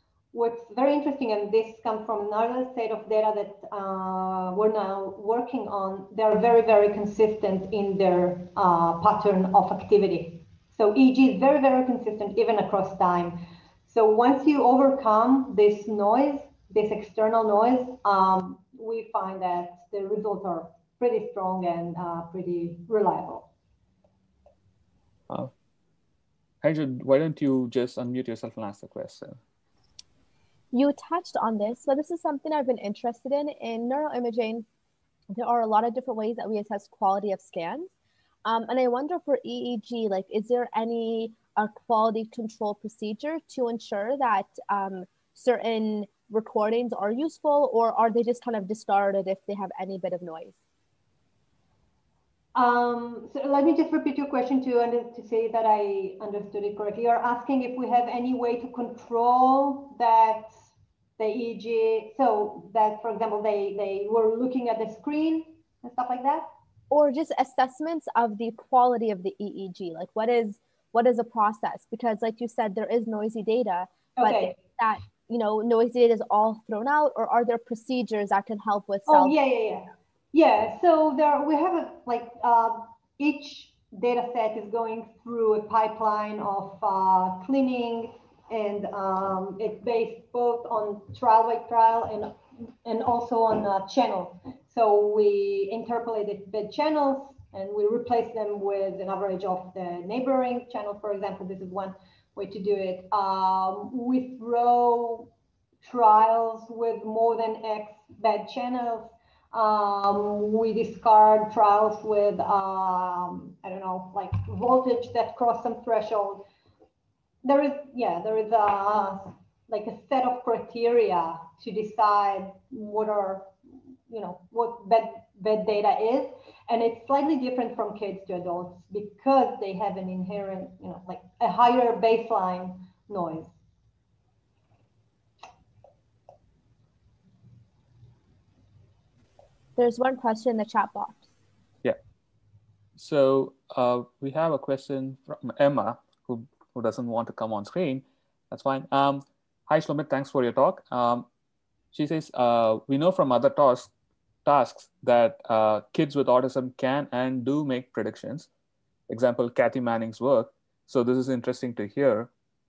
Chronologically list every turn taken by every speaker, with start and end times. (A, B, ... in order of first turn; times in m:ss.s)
0:00.3-0:23.5 A
0:26.6-0:29.4 B
0:30.7-0:34.7 C
0:35.3-0:37.9 C
0:38.4-0:50.5 C
0:52.5-1:06.5 A
1:06.9-1:19.3 C
1:14.2-1:14.6 A
1:19.1-1:32.3 A
1:32.8-1:56.4 A
1:57.4-2:03.5 A
2:04.1-2:13.6 A
2:19.8-2:21.2 C
2:23.0-2:31.2 B
2:31.9-2:33.9 B
2:34.4-2:38.5 B
2:39.1-2:42.3 B